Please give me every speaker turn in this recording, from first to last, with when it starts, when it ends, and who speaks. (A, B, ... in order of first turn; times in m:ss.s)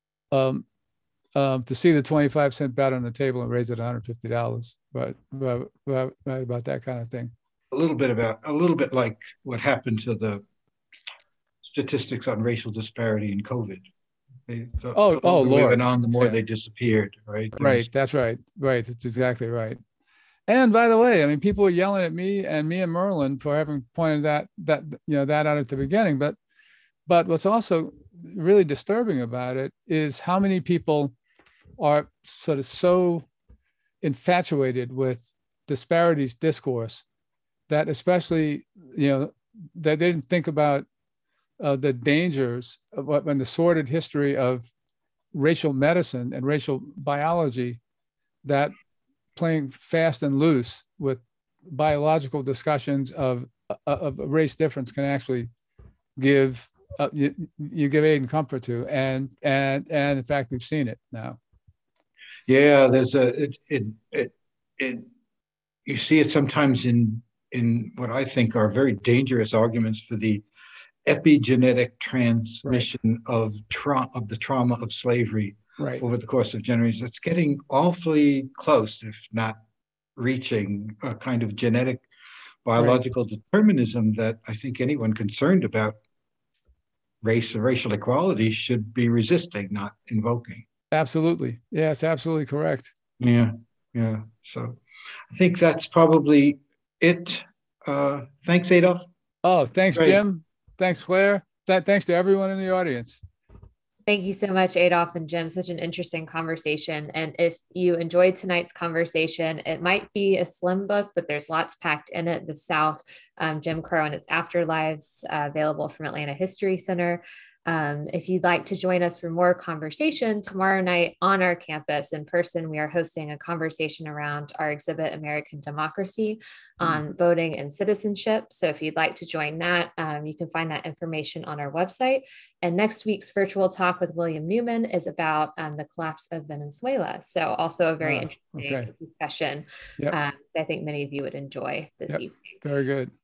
0:00.3-0:00.7 A
0:01.4-0:07.3 A
0:07.7-0:10.4 B
0:11.6-0:13.8 B
0:14.5-0:17.9 B
0:14.9-0:16.4 A
0:17.6-0:19.8 A
0:20.5-0:26.4 A
0:27.1-0:31.1 A
0:31.8-0:33.3 A
0:34.0-0:37.0 A
0:37.7-0:40.9 A
0:41.6-0:44.7 A
0:45.3-0:47.8 A
0:48.4-0:48.7 A
0:49.4-0:55.5 A
0:56.2-1:01.4 A
1:02.5-1:05.1 B
1:05.9-1:10.4 B
1:11.0-1:19.6 B
1:20.2-1:22.0 B
1:22.6-1:26.0 B
1:27.2-1:30.7 B
1:30.9-1:32.9 A
1:33.2-1:39.1 B
1:39.4-1:43.2 A
1:40.0-1:40.2 B
1:44.1-2:22.6 C
2:18.0-2:18.9 A
2:22.1-2:23.1 A